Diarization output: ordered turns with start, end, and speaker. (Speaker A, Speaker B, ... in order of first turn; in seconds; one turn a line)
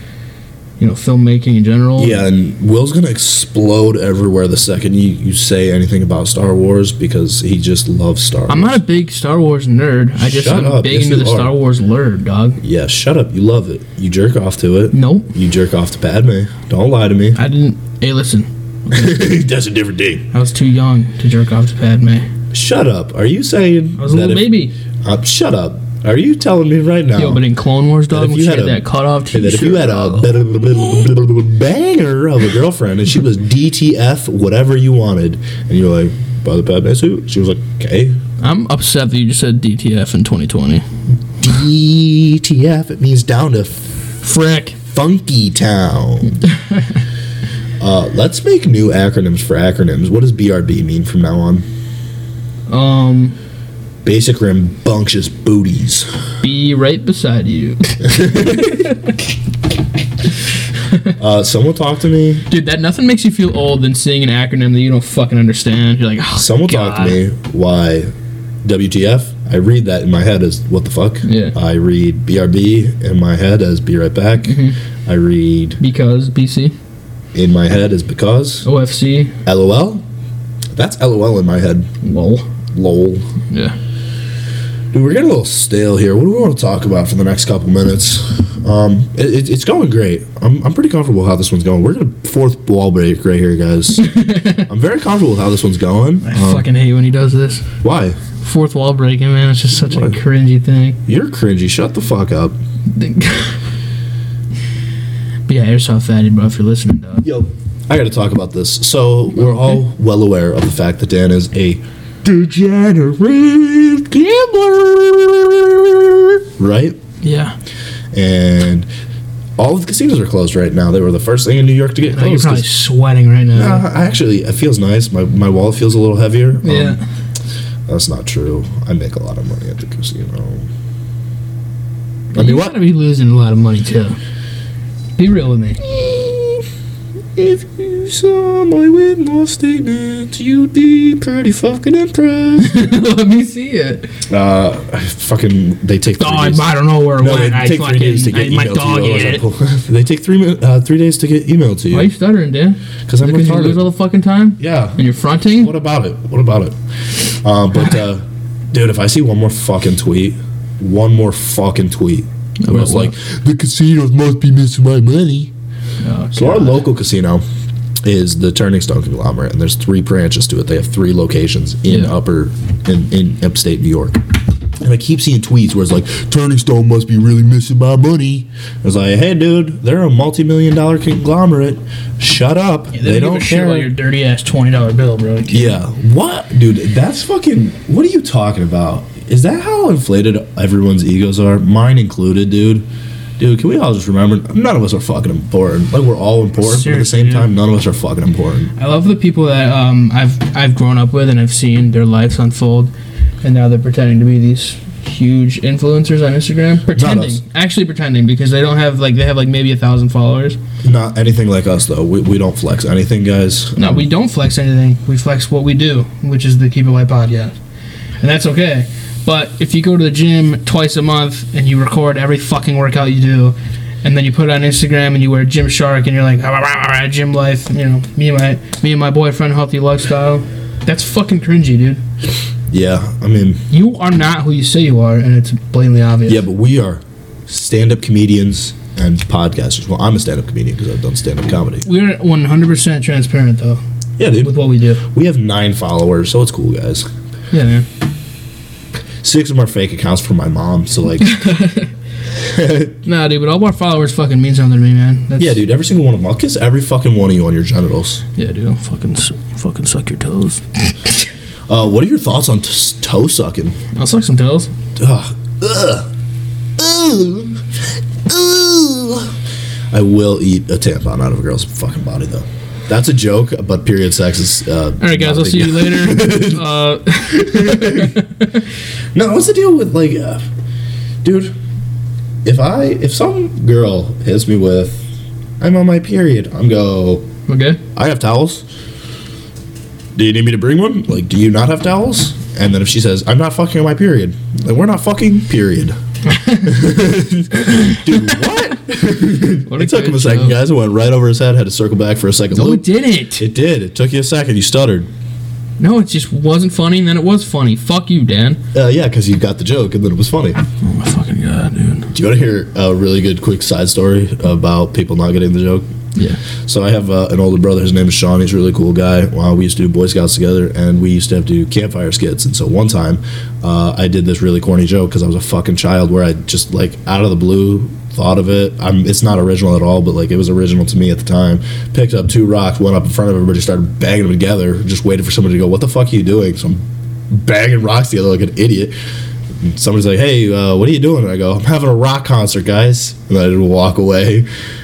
Speaker A: 0.8-2.2
Speaker B: 2.0-8.8
Speaker A: 8.5-12.6
Speaker B: 10.2-11.6
Speaker B: 12.6-17.4
Speaker A: 14.9-15.3
Speaker A: 17.4-19.2
Speaker B: 18.9-20.3
Speaker A: 20.3-22.3
Speaker B: 22.5-27.4
Speaker A: 24.0-24.7
Speaker A: 27.2-30.3
Speaker B: 28.1-38.2
Speaker A: 38.4-40.9
Speaker B: 41.4-43.9
Speaker A: 44.2-44.8
Speaker B: 44.9-46.4
Speaker A: 46.4-46.9
Speaker B: 47.8-51.6
Speaker A: 52.7-53.4
Speaker B: 54.0-56.2
Speaker A: 56.4-59.0
Speaker B: 58.0-58.9
Speaker B: 61.2-62.5
Speaker A: 62.5-67.2
Speaker B: 66.4-68.1
Speaker B: 68.6-75.8
Speaker A: 71.2-71.5
Speaker A: 74.4-74.8
Speaker A: 75.8-76.7
Speaker B: 77.3-78.7
Speaker A: 78.6-79.3
Speaker B: 79.5-80.0
Speaker B: 80.7-81.9
Speaker A: 82.0-82.5
Speaker B: 82.7-83.3
Speaker A: 83.5-83.8
Speaker B: 84.9-94.1
Speaker A: 94.0-94.7
Speaker B: 94.7-96.7
Speaker A: 96.2-97.7
Speaker B: 97.8-98.2
Speaker A: 98.4-101.0
Speaker B: 99.9-100.2
Speaker B: 101.1-102.6
Speaker A: 102.9-103.6
Speaker A: 105.5-107.3
Speaker B: 107.2-117.0
Speaker A: 117.2-117.5
Speaker B: 118.1-118.9
Speaker B: 119.6-122.7
Speaker A: 122.1-123.8
Speaker B: 123.5-127.0
Speaker A: 126.6-127.0
Speaker B: 127.9-130.7
Speaker A: 132.3-134.2
Speaker B: 132.3-132.8
Speaker A: 135.2-135.8
Speaker B: 135.8-136.7
Speaker B: 137.4-142.9
Speaker A: 142.6-144.1
Speaker B: 144.3-152.1
Speaker A: 146.2-149.4
Speaker A: 151.9-155.7
Speaker B: 153.1-153.8
Speaker B: 154.6-155.0
Speaker B: 155.5-156.7
Speaker B: 157.3-165.5
Speaker A: 162.6-163.1
Speaker A: 166.0-166.8
Speaker B: 166.3-167.4
Speaker B: 168.0-174.2
Speaker A: 171.9-172.1
Speaker B: 174.8-183.9
Speaker A: 182.9-185.8
Speaker B: 185.5-192.9
Speaker B: 193.4-198.7
Speaker A: 196.6-197.5
Speaker A: 198.8-202.9
Speaker A: 203.4-210.6
Speaker B: 206.9-207.4
Speaker B: 210.8-214.1
Speaker A: 213.8-217.5
Speaker A: 218.2-232.0
Speaker B: 232.7-233.6
Speaker A: 233.7-236.4
Speaker B: 236.3-241.9
Speaker A: 241.8-243.8
Speaker B: 244.2-247.1
Speaker A: 244.4-245.0
Speaker A: 247.5-247.8
Speaker B: 249.2-251.4
Speaker A: 251.2-251.9
Speaker B: 252.4-253.0
Speaker A: 253.1-255.6
Speaker B: 255.4-258.2
Speaker A: 258.4-260.8
Speaker B: 261.7-263.8
Speaker A: 263.9-264.7
Speaker B: 265.0-266.1
Speaker B: 266.8-267.7
Speaker B: 268.2-269.3
Speaker B: 269.9-276.7
Speaker A: 275.0-278.6
Speaker B: 277.2-278.2
Speaker B: 279.1-280.4
Speaker B: 281.2-281.6
Speaker B: 282.4-285.0
Speaker B: 285.6-287.3
Speaker A: 287.5-287.8
Speaker B: 287.9-288.6
Speaker B: 290.2-296.0
Speaker A: 296.3-296.9
Speaker B: 296.6-302.9
Speaker A: 297.5-298.4
Speaker A: 299.6-300.6
Speaker A: 302.5-303.4
Speaker B: 303.4-305.1
Speaker A: 305.8-308.6
Speaker B: 308.7-310.6
Speaker A: 310.8-312.1
Speaker B: 312.1-315.9
Speaker B: 316.6-338.9
Speaker B: 339.6-344.5